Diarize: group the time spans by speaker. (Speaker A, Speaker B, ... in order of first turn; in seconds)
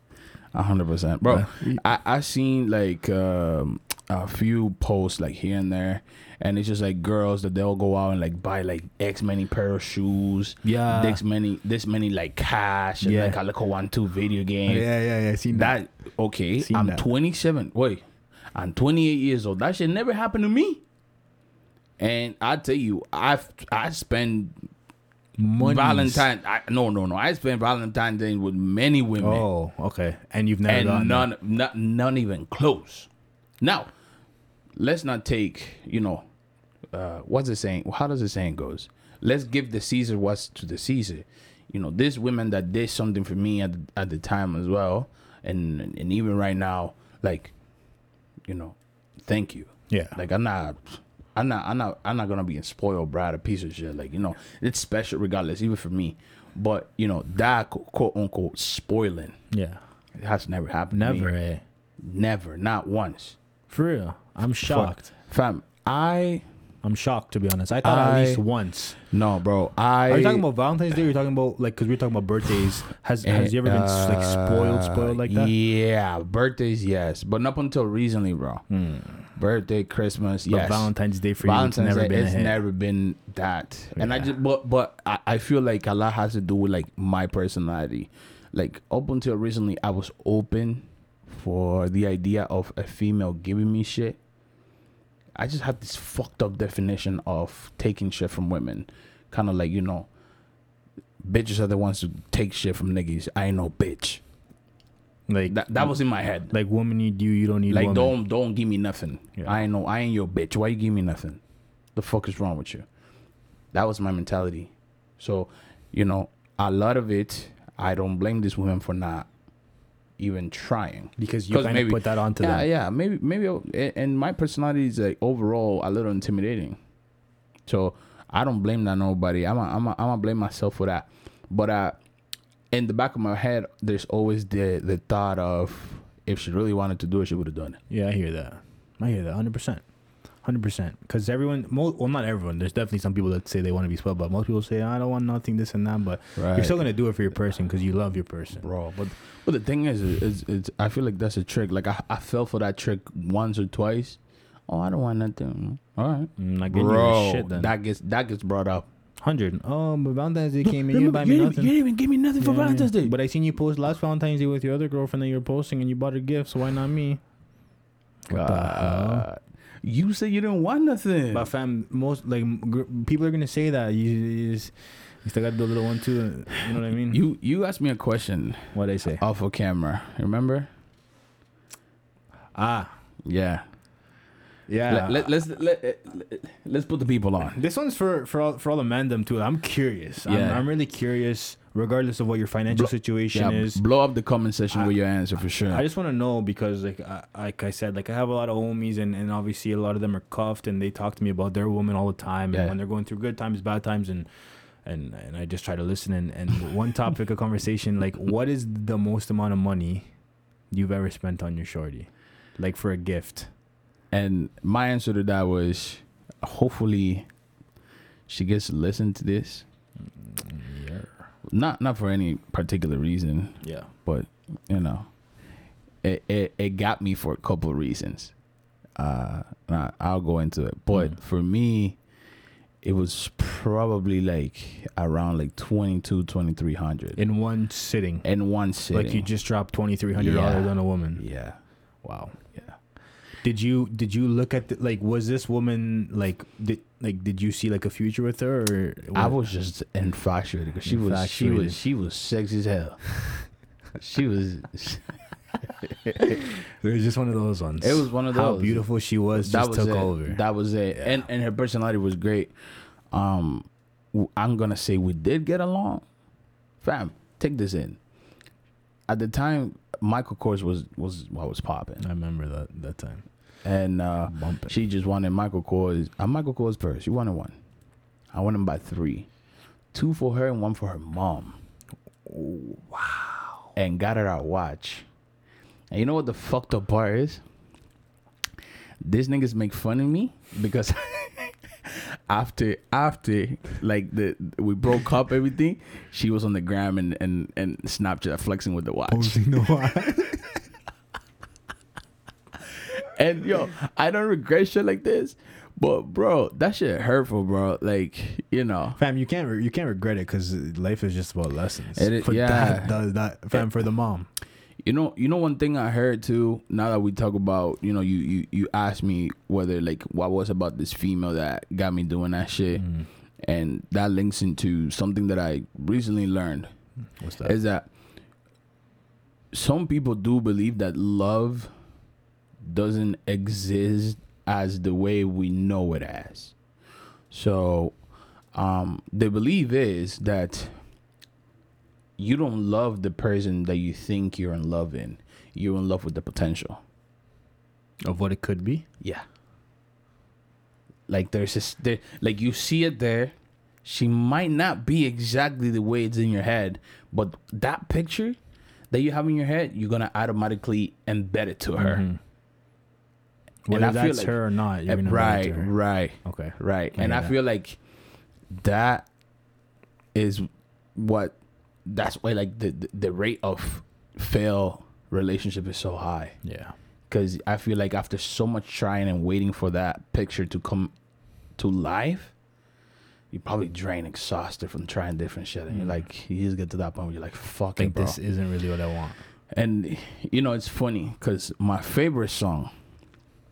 Speaker A: 0.5-14.9, 15.5-18.0, 18.5-20.8, 22.0-24.5, 25.6-29.4, 30.7-33.1, 33.6-33.9, 34.8-36.2, 36.9-47.5, 48.5-59.4, 60.2-61.3, 62.0-63.4, 64.6-66.4, 67.8-68.4, 69.1-70.4, 73.2-78.6, 79.3-80.9, 81.4-94.2, 95.4-100.1, 101.2-104.2, 105.5-106.5, 107.7-111.4, 112.0-112.8, 113.7-119.3, 120.2-126.8, 127.7-132.0, 132.7-137.8, 146.3-146.8, 148.6-158.8, 160.6-163.1, 168.3-171.5, 177.1-180.7, 183.2-183.6, 184.9-187.6, 190.2-190.6, 192.7-195.8, 214.1-217.3, 218.3-219.6, 221.5-225.1, 226.0-228.3, 229.0-232.0, 232.8-237.2, 238.2-239.3, 240.2-241.6, 249.1-253.0, 254.0-255.0, 255.8-256.4, 257.8-258.9, 259.4-262.5, 263.1-266.0, 266.8-268.0, 269.1-272.0, 273.6-277.6, 278.3-279.3, 279.9-281.6, 283.8-285.1, 285.9-287.4, 289.0-299.4, 303.0-309.0, 311.9-313.0, 314.8-322.9, 323.4-326.7, 327.4-327.9, 329.5-331.7, 332.6-336.5, 337.3-337.9, 338.5-340.7, 342.2-346.8, 351.1-358.4, 358.9-362.0, 363.7-367.8, 368.5-369.1, 370.1-376.4, 377.1-380.9, 381.6-382.3, 383.3-388.2, 389.5-392.7
Speaker B: 1.3-1.8, 10.6-11.2, 13.0-13.4, 14.7-15.7, 16.6-17.0, 25.4-26.2, 29.2-31.3, 49.9-50.2, 59.5-59.8, 60.9-61.6, 63.7-65.1, 66.8-69.0, 70.1-75.5, 78.7-79.3, 80.5-82.6, 84.0-84.3, 105.3-105.9, 106.5-108.1, 121.2-122.7, 137.9-139.8, 140.4-148.6, 156.4-157.7, 159.2-161.7, 162.4-167.2, 168.3-169.3, 171.3-177.2, 178.7-179.2, 182.5-182.9, 184.7-185.3, 187.5-193.8, 195.7-204.3, 204.8-210.1, 210.7-213.5, 220.0-221.2, 223.6-223.9, 237.2-238.2, 238.9-241.2, 242.0-242.3, 243.4-249.4, 250.8-251.8, 256.2-260.4, 260.9-261.2, 272.0-273.2, 274.3-274.7, 282.2-283.7, 299.1-300.6, 309.0-314.3, 322.8-323.1, 327.2-327.6, 348.0-348.8, 361.8-362.2, 363.6-365.7, 366.2-367.3, 376.4-376.7, 385.7-386.0, 387.8-389.2